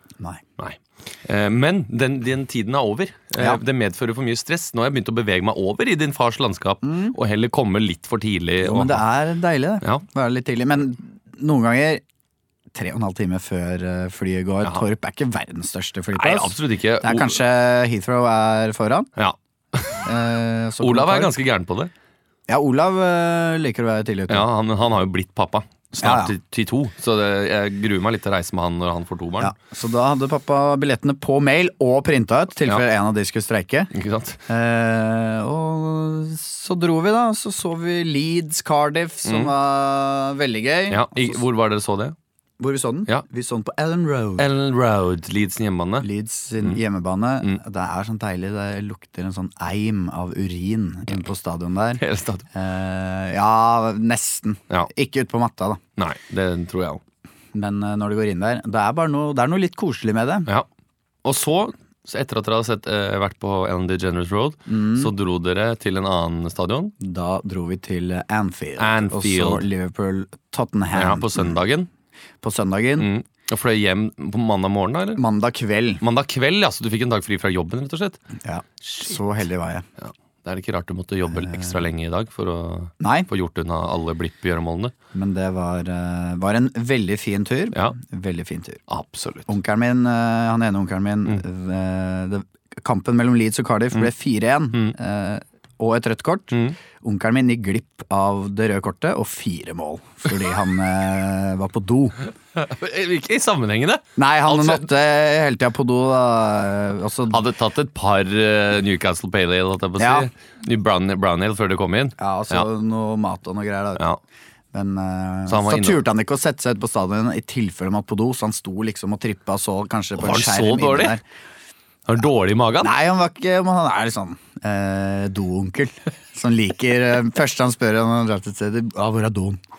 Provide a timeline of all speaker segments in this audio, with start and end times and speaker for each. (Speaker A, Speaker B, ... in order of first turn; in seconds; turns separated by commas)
Speaker A: 0.6-9.1, Speaker B: 3.4-3.6, Speaker B: 6.8-7.2, Speaker B: 8.6-12.0, Speaker B: 12.7-19.1, Speaker A: 16.1-17.4, Speaker A: 19.2-20.1, Speaker B: 20.1-21.4, Speaker A: 20.8-21.9, Speaker B: 22.5-24.5, Speaker A: 24.3-29.5, Speaker B: 26.0-26.3, Speaker B: 29.4-33.9, Speaker A: 33.9-34.4, Speaker B: 34.5-41.4, Speaker A: 39.2-39.5, Speaker A: 40.9-42.1, Speaker B: 42.6-44.5, Speaker A: 44.4-46.1, Speaker B: 46.0-52.0, Speaker A: 52.0-52.5, Speaker B: 52.5-55.8, Speaker A: 56.0-57.0, Speaker B: 57.5-60.5, Speaker A: 61.2-66.9, Speaker B: 64.7-65.1, Speaker B: 67.0-71.5, Speaker A: 68.8-69.7, Speaker A: 70.9-71.9, Speaker B: 72.4-73.1, Speaker A: 73.0-75.2, Speaker B: 75.2-76.0, Speaker A: 76.0-78.2, Speaker B: 78.4-79.9, Speaker A: 80.0-84.9, Speaker B: 81.3-81.8, Speaker B: 83.0-83.3, Speaker B: 85.1-88.8, Speaker A: 88.9-89.5, Speaker B: 89.5-102.2, Speaker A: 102.6-104.8, Speaker B: 104.2-107.4, Speaker A: 107.3-112.7, Speaker B: 110.0-110.3, Speaker B: 112.2-114.0, Speaker B: 114.7-121.2, Speaker A: 115.5-116.0, Speaker A: 120.2-121.2, Speaker A: 122.1-122.9, Speaker B: 122.8-129.6